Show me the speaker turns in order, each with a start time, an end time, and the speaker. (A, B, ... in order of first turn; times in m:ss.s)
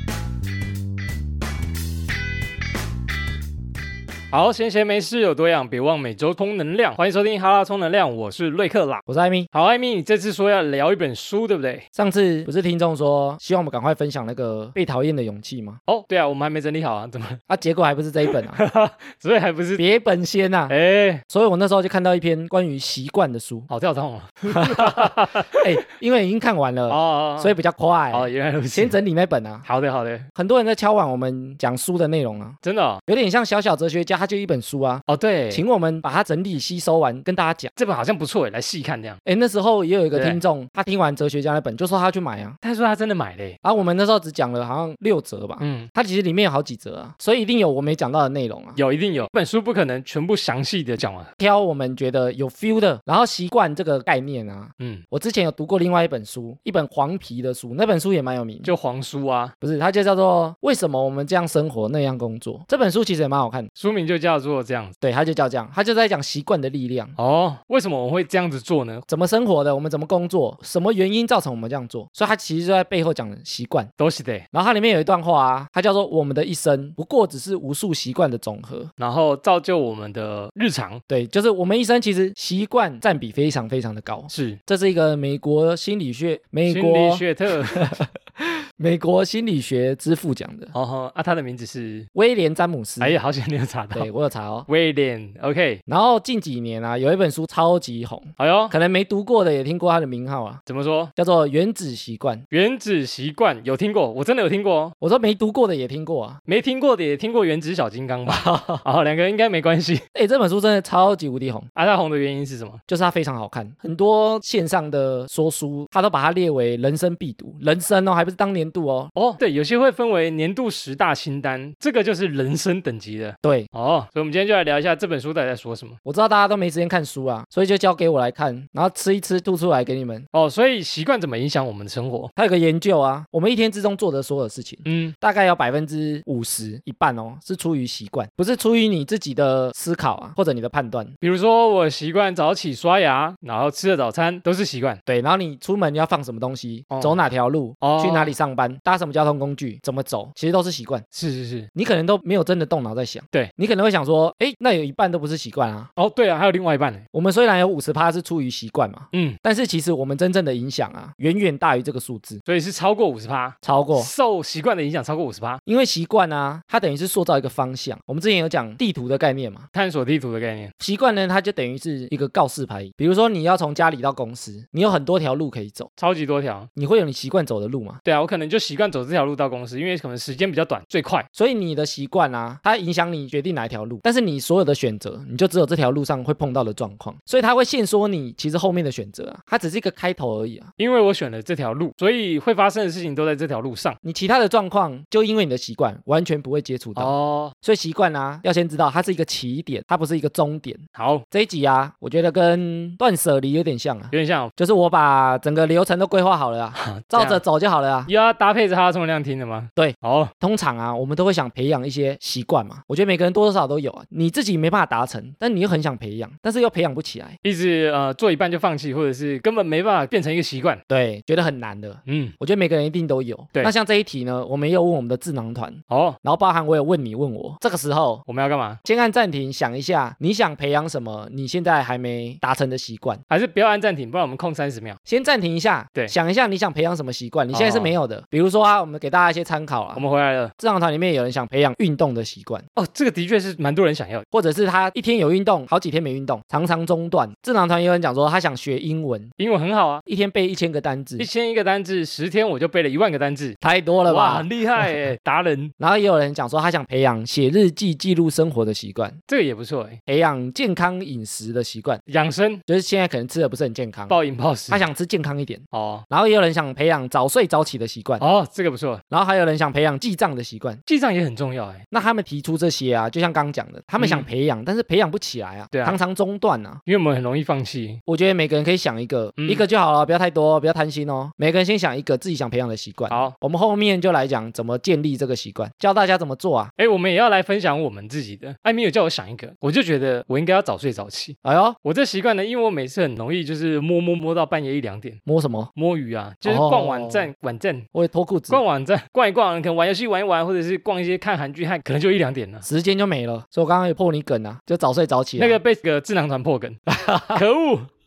0:04.3-0:11.8 A
0:09.1-0:09.5 B
0:11.9-0:15.8 B
0:15.9-0:17.4 A
0:17.5-0:18.6 B
0:18.5-0:19.8 A
0:19.8-0:20.7 B
0:20.7-0:21.2 A
0:21.3-0:23.7 B
0:23.7-0:25.7 A
0:24.5-0:29.7 B
0:26.9-0:27.5 A
0:28.1-0:29.0 A
0:29.6-0:30.3 A
0:30.4-0:37.7 B
0:32.6-0:33.0 A
0:35.1-0:35.6 A
0:37.8-0:39.2 A
0:39.2-0:42.6 B
0:40.1-0:40.4 A
0:42.6-0:43.6 A
0:43.6-0:48.8 B
0:45.6-0:45.9 A
0:48.8-0:51.3 A
0:51.4-0:58.7 B
0:58.6-0:59.5 A
0:59.6-1:03.7 B
1:03.8-1:04.9 A
1:05.0-1:07.2 B
1:07.2-1:09.0 A
1:09.1-1:13.9 B
1:14.0-1:14.5 A
1:14.5-1:18.9 B
1:19.0-1:21.0 A
1:21.1-1:30.7 B
1:24.3-1:24.6 A
1:26.6-1:27.9 A
1:30.7-1:32.1 A
1:32.2-1:33.2 B
1:33.0-1:34.1 A
1:34.0-1:34.7 B
1:34.7-1:35.8 A
1:35.9-1:40.6 B
1:38.4-1:38.7 A
1:40.7-1:41.1 A
1:41.2-1:42.4 B
1:42.5-1:44.9 A
1:45.0-1:46.4 B
1:46.5-1:50.0 A
1:48.3-1:48.8 B
1:50.2-1:51.7 B
1:51.8-1:52.8 A
1:52.9-1:59.1 B
1:59.2-2:06.0 A
2:03.4-2:03.7 B
2:06.0-2:10.3 B
2:10.3-2:12.3 A
2:12.4-2:21.2 B
2:14.8-2:15.2 A
2:21.2-2:25.0 A
2:25.1-2:31.0 B
2:26.9-2:27.2 A
2:27.8-2:28.3 A
2:31.1-2:31.7 A
2:31.8-2:35.9 B
2:36.0-2:37.0 A
2:37.1-2:42.4 B
2:39.1-2:39.4 A
2:42.5-2:45.6 A
2:43.6-2:44.1 B
2:45.7-2:49.7 B
2:49.7-2:50.7 A
2:50.8-2:55.9 B
2:56.0-2:56.7 A
2:56.8-2:58.0 B
2:58.0-3:01.3 A
3:01.4-3:10.7 B
3:10.8-3:14.0 A
3:14.0-3:28.1 B
3:17.0-3:17.5 A
3:21.0-3:21.2 A
3:24.1-3:24.5 A
3:26.8-3:27.4 A
3:28.1-3:30.3 A
3:29.8-3:37.4 B
3:37.4-3:40.8 A
3:40.9-3:48.2 B
3:42.1-3:42.3 A
3:45.9-3:46.2 A
3:48.3-3:48.8 A
3:48.8-3:53.2 B
3:53.3-3:55.0 A
3:55.1-4:00.0 B
3:57.5-3:57.9 A
4:00.0-4:00.5 A
4:00.6-4:02.6 B
4:02.8-4:04.2 A
4:04.3-4:09.3 B
4:09.4-4:10.0 A
4:10.1-4:11.3 B
4:11.2-4:15.7 A
4:13.6-4:14.9 B
4:15.8-4:19.2 B
4:19.3-4:20.0 A
4:20.1-4:22.0 B
4:22.1-4:22.6 A
4:22.7-4:24.2 B
4:24.1-4:24.8 A
4:24.7-4:28.2 B
4:25.7-4:26.0 A
4:28.2-4:29.0 A
4:29.1-4:30.8 B
4:30.9-4:31.8 A
4:31.9-4:36.8 B
4:34.0-4:34.3 A
4:35.7-4:36.0 A
4:36.9-4:38.0 A
4:38.1-4:46.7 B
4:39.4-4:39.6 A
4:46.8-4:55.2 A
4:51.4-4:51.8 B
4:55.3-4:55.7 B
4:55.7-4:57.9 A
4:56.4-4:57.3 B
4:57.9-4:58.6 B
4:58.5-5:02.7 A
5:02.6-5:05.6 B
5:05.4-5:07.9 A
5:06.9-5:07.4 B